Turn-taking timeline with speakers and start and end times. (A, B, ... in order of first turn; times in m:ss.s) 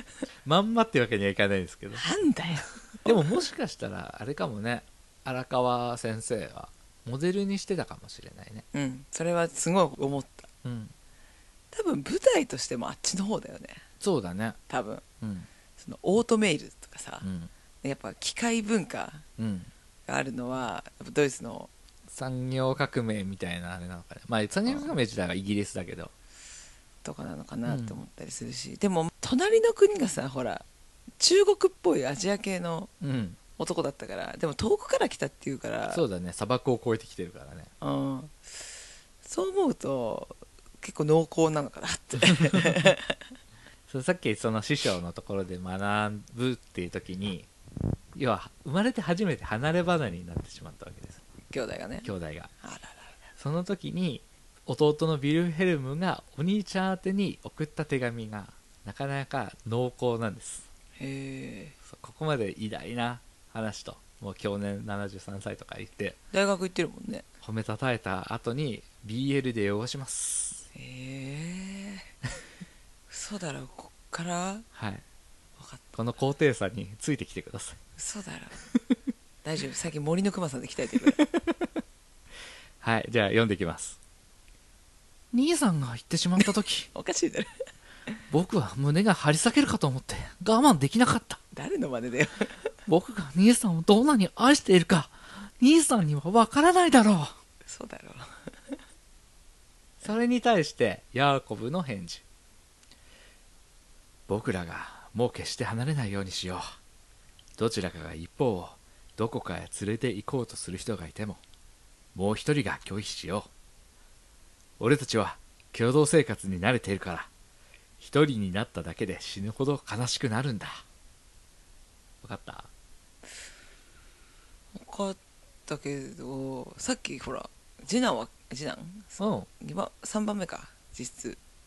0:00.4-0:02.0 A
0:02.0-0:03.2 B
0:03.0-0:08.6 A
0:08.7-0:10.5 B
0:10.6-0:10.9 A
0:11.7-0:13.8 B
0:14.0-0:14.6 A
0:14.7-0:15.0 B
0:15.2-0:15.5 A
0:15.8-0:17.3 B
0:17.2-0:17.5 A
0:17.8-0:19.2 B
0:19.4-0:19.7 A
0:20.1-0:21.7 B
0:22.1-0:26.1 A
0:24.7-0:24.9 B
0:27.0-0:30.6 B
0:27.6-0:28.0 A
0:31.2-0:32.9 B
0:33.0-0:33.4 A
0:33.6-0:36.0 B
0:35.9-0:37.7 A
0:37.8-0:38.6 B
0:39.2-0:43.3 B
0:43.9-0:47.5 A
0:48.1-0:51.2 A
0:51.5-0:52.1 B
0:52.0-0:52.5 A
0:52.6-0:53.2 B
0:53.4-1:00.7 A
1:01.0-1:01.8 B
1:01.8-1:06.2 A
1:06.3-1:07.3 B
1:07.4-1:10.6 A
1:10.7-1:12.1 B
1:13.1-1:14.6 B
1:14.7-1:15.0 A
1:15.6-1:16.0 B
1:16.0-1:17.8 A
1:18.0-1:18.6 B
1:19.4-1:21.2 B
1:21.2-1:21.6 A
1:22.8-1:24.0 A
1:25.3-1:26.9 A
1:26.9-1:27.5 B
1:28.3-1:31.4 A
1:31.5-1:32.7 B
1:32.9-1:37.4 A
1:37.6-1:38.8 B
1:40.0-1:42.2 A
1:44.3-1:46.8 A
1:47.6-1:51.4 A
1:52.1-1:53.5 A
1:54.8-1:57.3 A
1:58.0-2:00.8 A
2:02.2-2:02.7 A
2:04.7-2:11.4 B
2:09.2-2:09.5 A